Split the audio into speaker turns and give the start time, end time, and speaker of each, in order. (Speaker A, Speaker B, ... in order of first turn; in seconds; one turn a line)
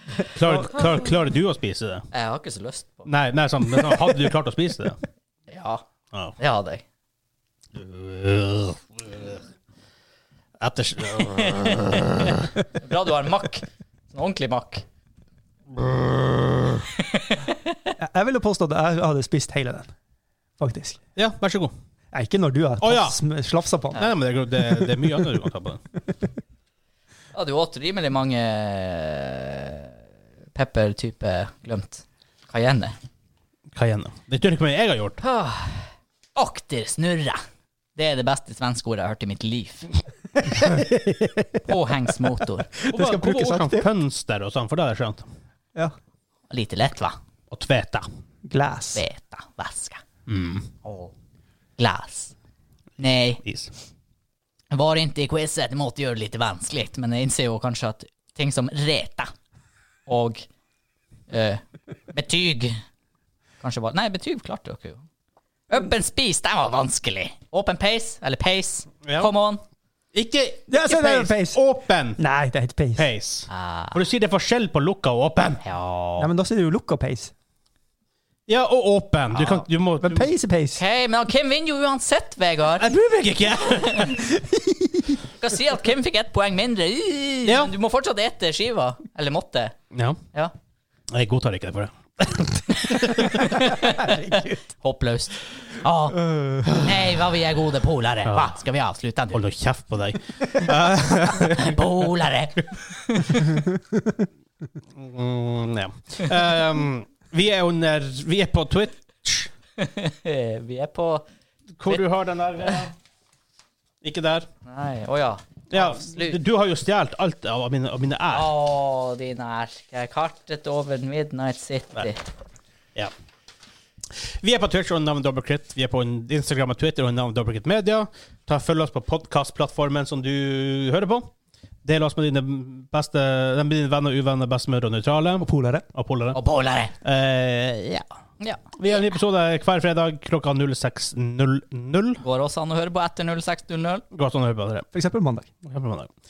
Speaker A: 0.2-2.1
Speaker B: 2.1-3.1
Speaker A: 3.1-5.0
Speaker B: 5.5-5.8
Speaker B: 6.4-6.8
Speaker A: 7.7-9.4
Speaker A: 10.6-12.5
Speaker B: 11.3-11.9
Speaker B: 12.8-14.8
Speaker A: 15.7-16.8
Speaker B: 17.0-17.6
Speaker C: 18.0-19.9
Speaker C: 20.6-21.0
Speaker A: 21.1-21.7
Speaker C: 22.1-25.0
Speaker A: 22.8-23.2
Speaker A: 23.9-25.8
Speaker B: 27.3-29.9
Speaker B: 30.5-32.9
Speaker A: 33.7-35.2
Speaker B: 35.2-37.4
Speaker B: 38.0-39.9
Speaker C: 40.7-41.4
Speaker B: 41.6-42.7
Speaker C: 42.8-43.9
Speaker A: 42.9-45.2
Speaker B: 46.5-47.2
Speaker A: 47.5-48.0
Speaker C: 48.5-49.0
Speaker B: 48.9-50.0
Speaker A: 50.3-50.7
Speaker B: 50.8-51.1
Speaker B: 51.8-52.3
Speaker B: 53.0-53.4
Speaker A: 53.4-53.7
Speaker B: 54.7-59.3
Speaker B: 60.1-60.4
Speaker B: 61.3-62.8
Speaker B: 63.6-65.0
Speaker B: 65.7-69.6
Speaker A: 69.0-69.3
Speaker A: 70.1-72.2
Speaker C: 70.7-71.6
Speaker C: 72.2-73.1
Speaker A: 73.0-75.6
Speaker B: 73.5-74.0
Speaker B: 75.6-76.3
Speaker C: 76.2-77.3
Speaker A: 78.5-80.3
Speaker C: 80.0-80.8
Speaker B: 80.8-82.9
Speaker A: 82.8-84.2
Speaker B: 83.8-84.1
Speaker C: 84.2-85.2
Speaker B: 85.4-89.7
Speaker A: 87.5-87.7
Speaker A: 89.9-90.2
Speaker A: 91.1-93.6
Speaker B: 92.7-99.4
Speaker C: 93.8-94.6
Speaker A: 96.7-96.9
Speaker A: 98.2-98.5
Speaker A: 99.3-101.9
Speaker B: 101.5-103.4
Speaker A: 105.0-109.5
Speaker B: 109.8-111.2
Speaker A: 111.8-112.9
Speaker A: 114.0-114.5
Speaker B: 114.7-116.4
Speaker A: 115.7-118.5
Speaker B: 118.3-122.2
Speaker A: 124.1-131.3
Speaker A: 131.8-136.4
Speaker C: 135.4-135.8
Speaker B: 136.3-136.9
Speaker A: 137.0-138.1
Speaker B: 138.4-138.7
Speaker A: 138.8-142.2
Speaker B: 142.2-144.0
Speaker A: 144.1-144.9
Speaker C: 144.9-145.5
Speaker A: 145.6-146.1